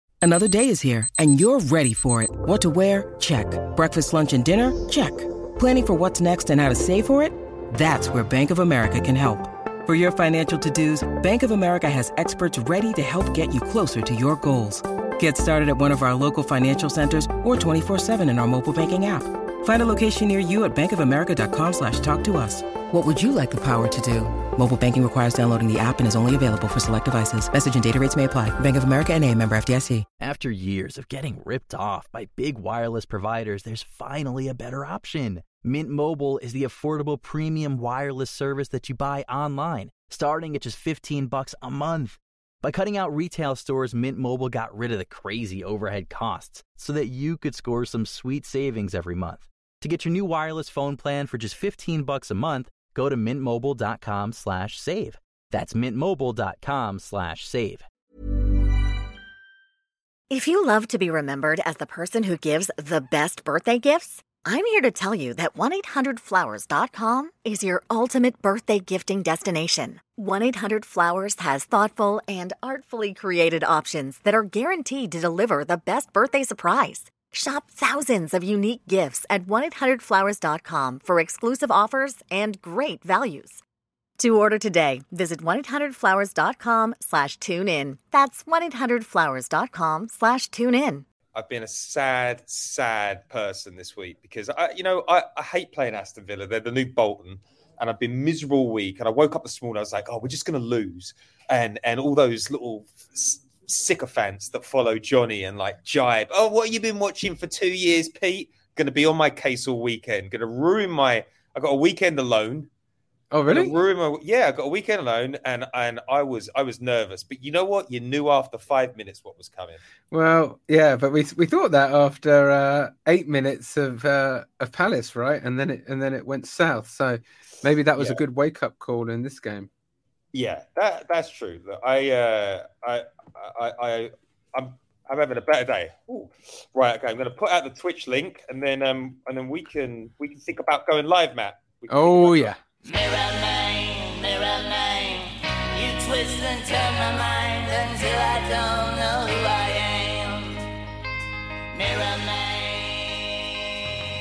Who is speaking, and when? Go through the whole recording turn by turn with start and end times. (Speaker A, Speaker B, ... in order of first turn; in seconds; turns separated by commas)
Speaker A: 0.2-30.1, Speaker B: 30.2-57.9, Speaker C: 60.3-83.6, Speaker C: 84.2-91.0, Speaker D: 91.3-112.7, Speaker E: 113.3-113.8, Speaker D: 113.5-119.8, Speaker E: 120.1-129.7, Speaker D: 130.3-142.5, Speaker E: 141.9-142.6, Speaker F: 142.8-150.6, Speaker F: 151.7-153.5